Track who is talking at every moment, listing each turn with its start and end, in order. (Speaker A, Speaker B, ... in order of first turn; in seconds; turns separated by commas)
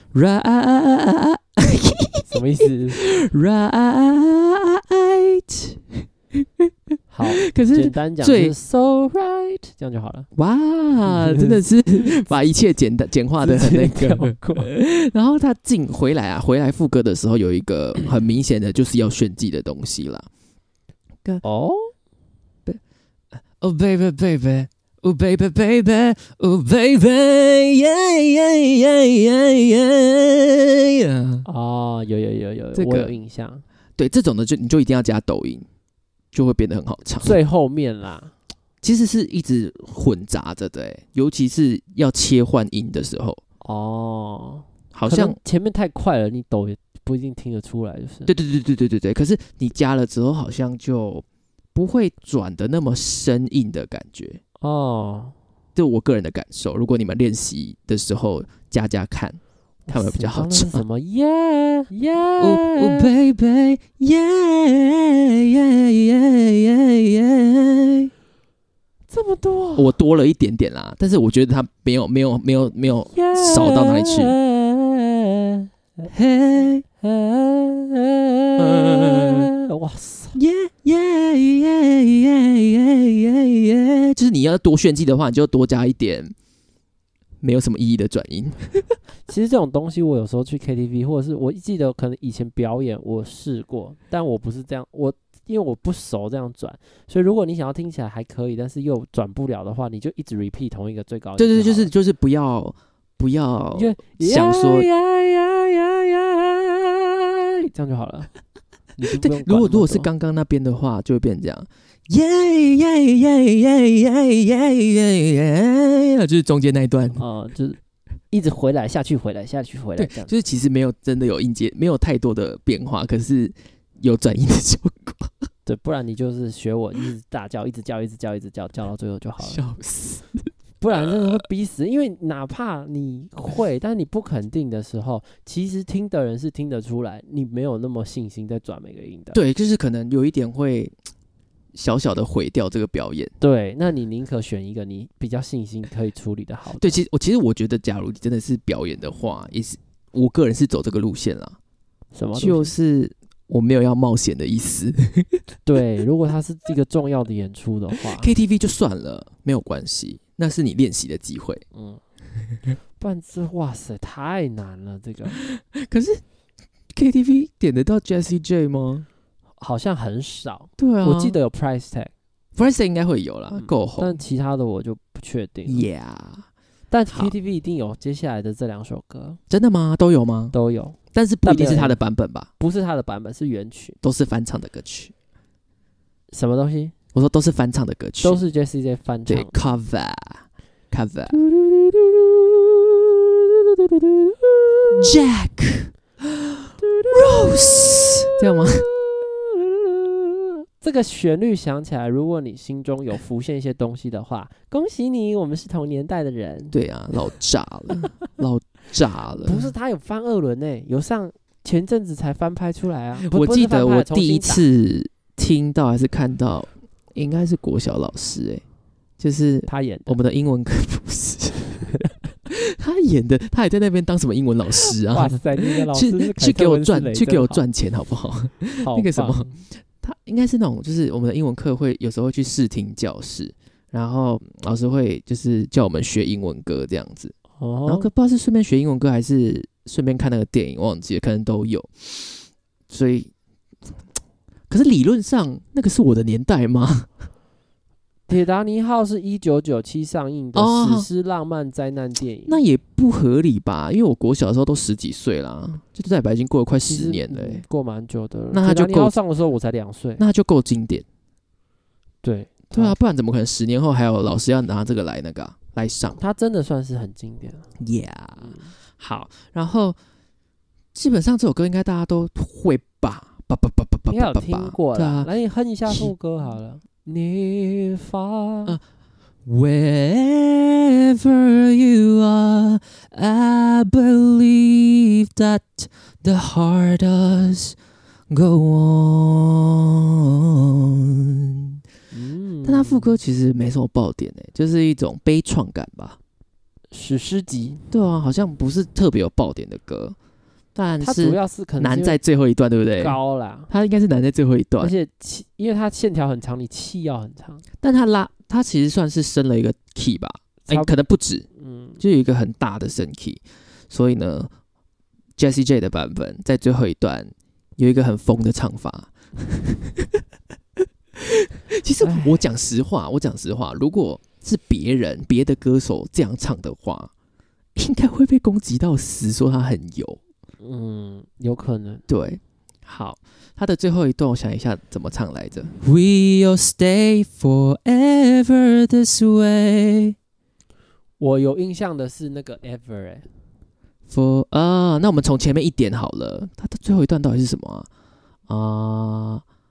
Speaker A: 0.1-2.4, Speaker B: 2.3-3.0, Speaker A: 2.9-6.7, Speaker B: 7.1-10.3, Speaker A: 7.2-8.5, Speaker A: 10.3-20.3, Speaker B: 11.1-12.1, Speaker B: 13.4-14.7, Speaker B: 21.4-21.9, Speaker A: 23.5-31.4, Speaker B: 31.4-33.6, Speaker A: 32.7-33.1, Speaker A: 34.0-35.6, Speaker A: 36.3-37.4, Speaker B: 37.2-38.3, Speaker A: 38.8-43.4, Speaker B: 43.6-48.3, Speaker A: 44.9-45.4, Speaker A: 48.3-54.4, Speaker B: 54.6-55.3, Speaker A: 55.8-60.8, Speaker B: 59.9-63.1, Speaker A: 62.4-68.1, Speaker B: 69.1-69.9, Speaker A: 69.8-74.3, Speaker B: 73.1-76.1, Speaker A: 76.1-76.8, Speaker B: 77.0-80.4, Speaker A: 78.6-79.5, Speaker A: 80.3-86.3, Speaker A: 87.4-88.8, Speaker B: 89.3-101.9, Speaker A: 101.4-104.9, Speaker B: 103.7-108.3, Speaker B: 109.0-110.1, Speaker A: 109.1-117.2, Speaker B: 117.2-117.8, Speaker B: 118.3-120.3, Speaker A: 120.0-125.5, Speaker B: 125.7-129.6, Speaker A: 129.4-131.4, Speaker B: 130.8-139.4, Speaker A: 139.3-140.9, Speaker A: 141.7-143.3, Speaker B: 143.4-147.0, Speaker A: 146.8-151.6, Speaker B: 152.1-152.7, Speaker A: 152.3-155.4, Speaker B: 155.7-158.3, Speaker A: 158.1-161.6, Speaker B: 161.7-162.0, Speaker B: 163.0-165.4, Speaker A: 165.3-166.2, Speaker A: 166.9-169.1, Speaker B: 169.6-172.1, Speaker A: 170.8-171.4, Speaker A: 172.6-174.2, Speaker B: 173.5-175.8, Speaker A: 175.7-176.4, Speaker B: 176.9-179.4, Speaker A: 179.5-180.5, Speaker B: 180.5-182.0, Speaker A: 181.1-182.5, Speaker B: 182.6-184.0, Speaker A: 184.0-185.1, Speaker B: 186.3-186.9, Speaker A: 187.1-188.4, Speaker B: 188.2-189.7, Speaker A: 189.3-191.4, Speaker B: 191.3-195.1, Speaker A: 194.9-195.9, Speaker B: 196.8-206.7, Speaker A: 197.1-198.9, Speaker A: 206.7-209.7, Speaker B: 209.4-214.6, Speaker A: 213.2-218.6, Speaker A: 219.2-243.3, Speaker B: 219.7-220.2, Speaker B: 225.0-227.6, Speaker B: 228.8-229.5, Speaker B: 237.6-238.1, Speaker A: 244.7-247.1, Speaker B: 248.3-252.6, Speaker A: 250.5-251.1, Speaker A: 252.5-257.6, Speaker B: 256.8-260.2, Speaker A: 258.5-259.1, Speaker A: 260.2-261.0, Speaker B: 262.2-263.0, Speaker A: 262.7-266.2, Speaker B: 266.2-267.7, Speaker A: 267.8-270.0, Speaker B: 268.4-268.7, Speaker A: 270.9-275.3, Speaker B: 274.1-278.8, Speaker A: 279.4-287.8, Speaker A: 288.3-291.6, Speaker B: 292.1-293.2, Speaker A: 292.6-296.2, Speaker B: 296.9-297.8, Speaker A: 297.9-300.1, Speaker A: 300.7-304.9, Speaker B: 301.0-302.2, Speaker B: 303.0-303.7, Speaker B: 304.8-307.6, Speaker A: 307.8-311.4, Speaker B: 310.6-310.9, Speaker B: 311.6-312.0, Speaker A: 312.0-314.5, Speaker A: 315.4-320.1, Speaker A: 321.2-327.1, Speaker B: 322.0-322.4, Speaker A: 327.8-330.2, Speaker B: 330.6-332.0, Speaker A: 332.1-340.1, Speaker B: 341.2-343.2, Speaker A: 344.1-347.9, Speaker A: 348.5-349.4